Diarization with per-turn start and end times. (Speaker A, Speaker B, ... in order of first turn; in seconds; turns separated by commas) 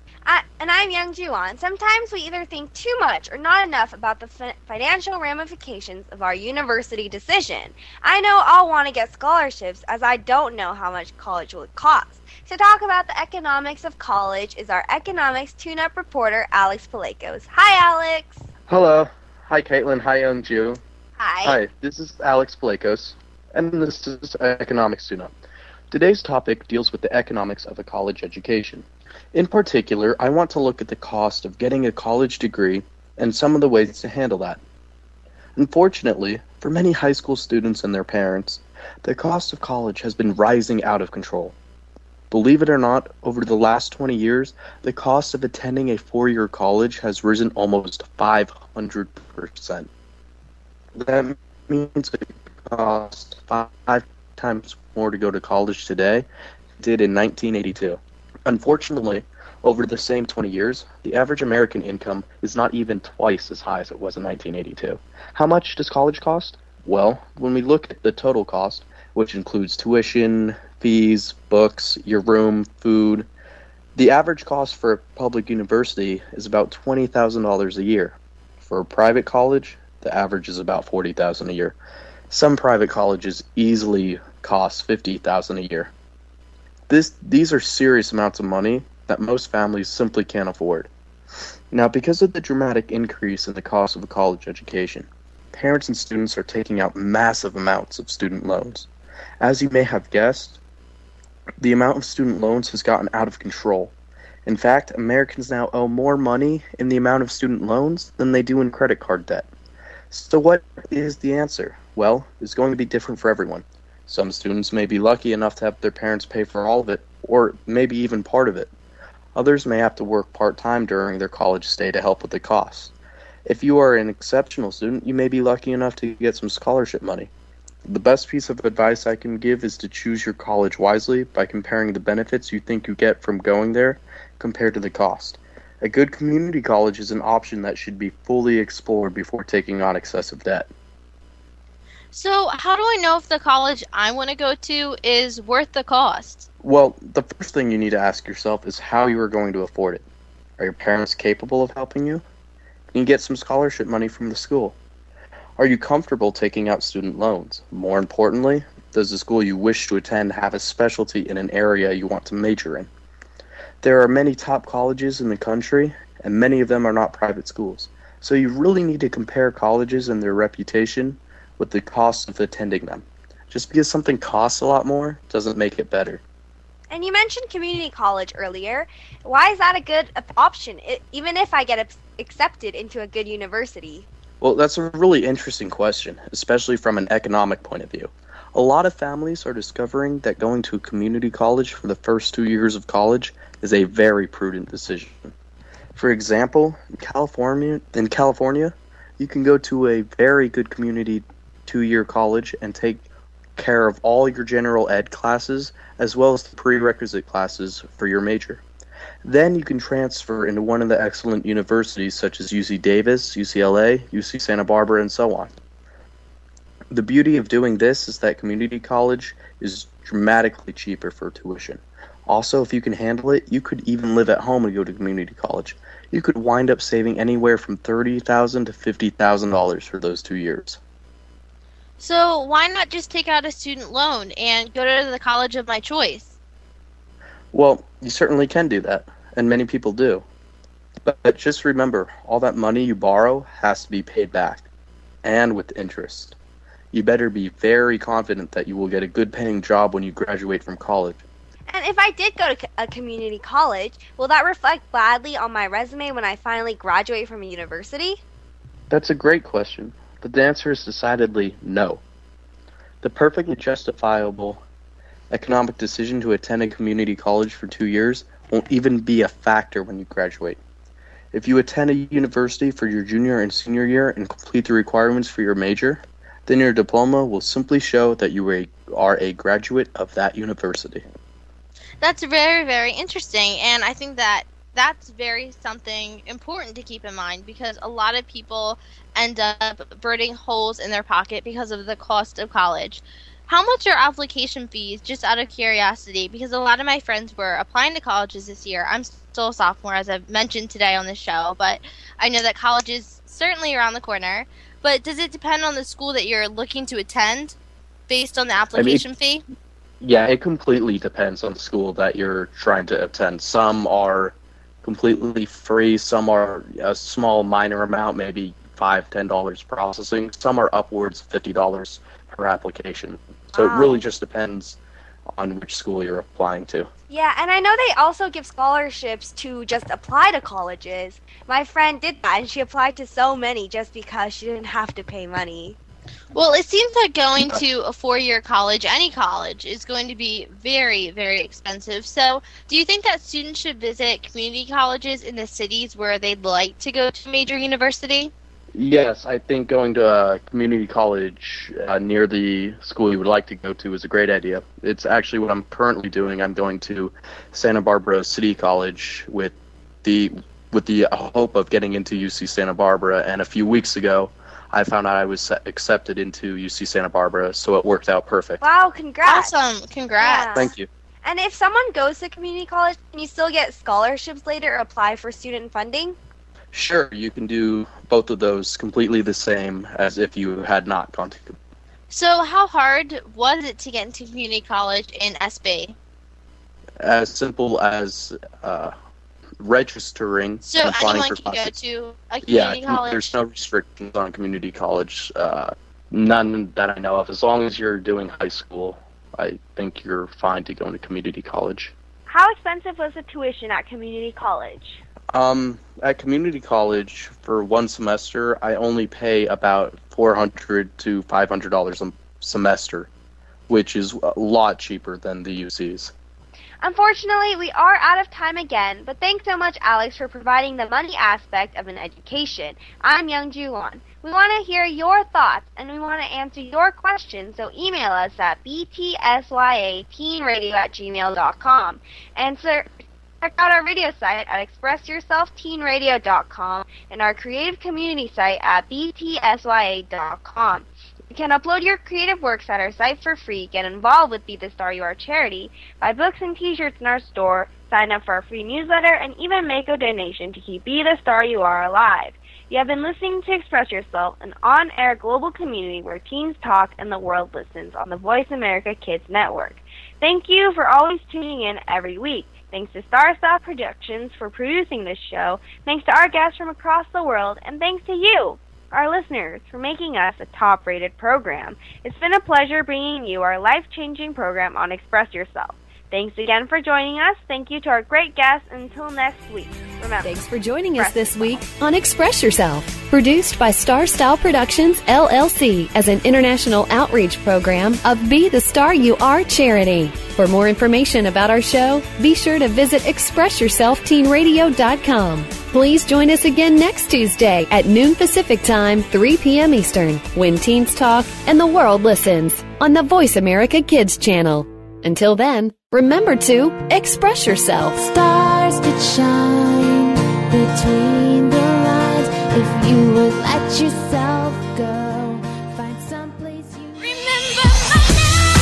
Speaker A: 0.2-18.4, Speaker B: 18.7-20.8, Speaker A: 21.2-21.6, Speaker B: 21.4-25.3, Speaker B: 25.9-34.6, Speaker B: 35.5-41.5, Speaker B: 42.3-49.9, Speaker B: 50.9-56.2, Speaker B: 56.8-73.3, Speaker B: 74.0-81.8, Speaker B: 82.3-85.9, Speaker B: 86.9-90.9, Speaker B: 91.7-98.9, Speaker B: 99.4-100.6, Speaker B: 101.6-103.9, Speaker B: 104.4-109.5, Speaker B: 110.1-118.7, Speaker B: 119.3-122.9, Speaker B: 123.5-127.3, Speaker B: 127.8-140.7, Speaker C: 142.1-146.5, Speaker B: 146.6-150.0, Speaker B: 150.6-152.2, Speaker B: 152.9-154.8, Speaker B: 155.6-162.9, Speaker B: 163.8-176.2, Speaker A: 176.9-184.1, Speaker B: 184.4-195.3, Speaker B: 195.9-203.0, Speaker B: 203.6-208.6, Speaker B: 209.2-215.5, Speaker B: 216.9-230.8, Speaker C: 232.0-236.3, Speaker B: 237.5-240.2, Speaker B: 241.0-244.6, Speaker B: 245.2-246.3, Speaker B: 246.9-251.2, Speaker A: 251.7-258.2, Speaker B: 258.9-262.0, Speaker B: 263.0-264.6, Speaker B: 265.3-270.6, Speaker B: 271.3-281.0, Speaker C: 282.0-307.6, Speaker C: 308.1-309.4, Speaker B: 308.7-309.1, Speaker B: 310.0-324.8, Speaker A: 323.5-324.0, Speaker B: 325.4-326.9, Speaker A: 327.1-335.8, Speaker C: 336.3-348.3, Speaker B: 348.8-368.6, Speaker A: 368.6-369.5, Speaker C: 369.2-370.7, Speaker A: 370.2-376.1, Speaker B: 370.4-370.9, Speaker B: 376.7-381.6, Speaker C: 382.1-385.9, Speaker B: 387.0-388.9, Speaker B: 389.6-391.7, Speaker C: 390.6-393.3, Speaker B: 392.4-401.9, Speaker A: 402.3-405.0, Speaker B: 405.3-413.1, Speaker B: 413.7-416.1, Speaker A: 416.8-480.3, Speaker D: 480.2-508.0, Speaker A: 480.9-481.4, Speaker E: 508.0-517.7